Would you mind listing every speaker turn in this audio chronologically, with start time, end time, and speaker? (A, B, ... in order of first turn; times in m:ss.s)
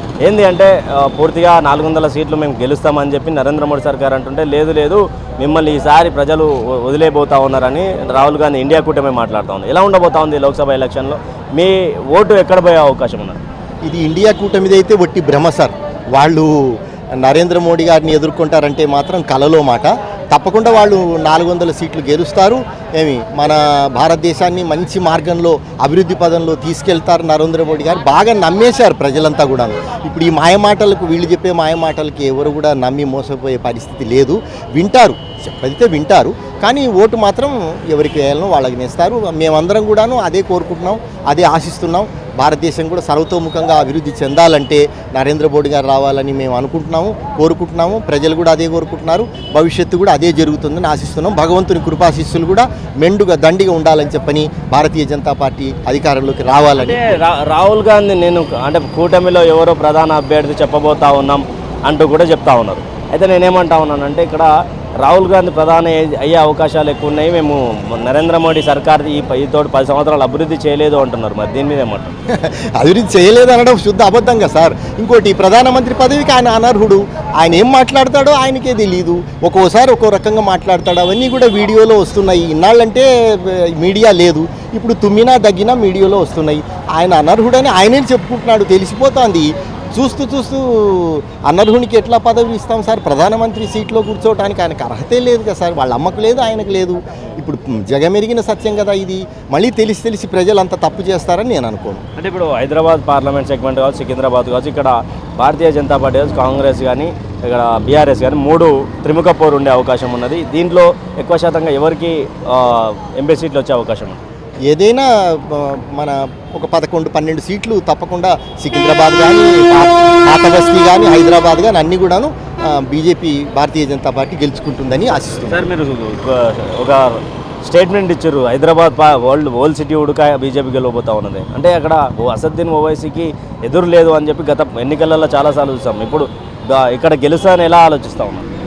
0:00.2-0:13.4 A
0:13.8-0:57.0 B
0:56.7-1:12.2 A
1:12.3-1:42.0 B
1:42.2-1:54.2 A
1:54.7-2:05.7 B
2:05.4-2:18.5 A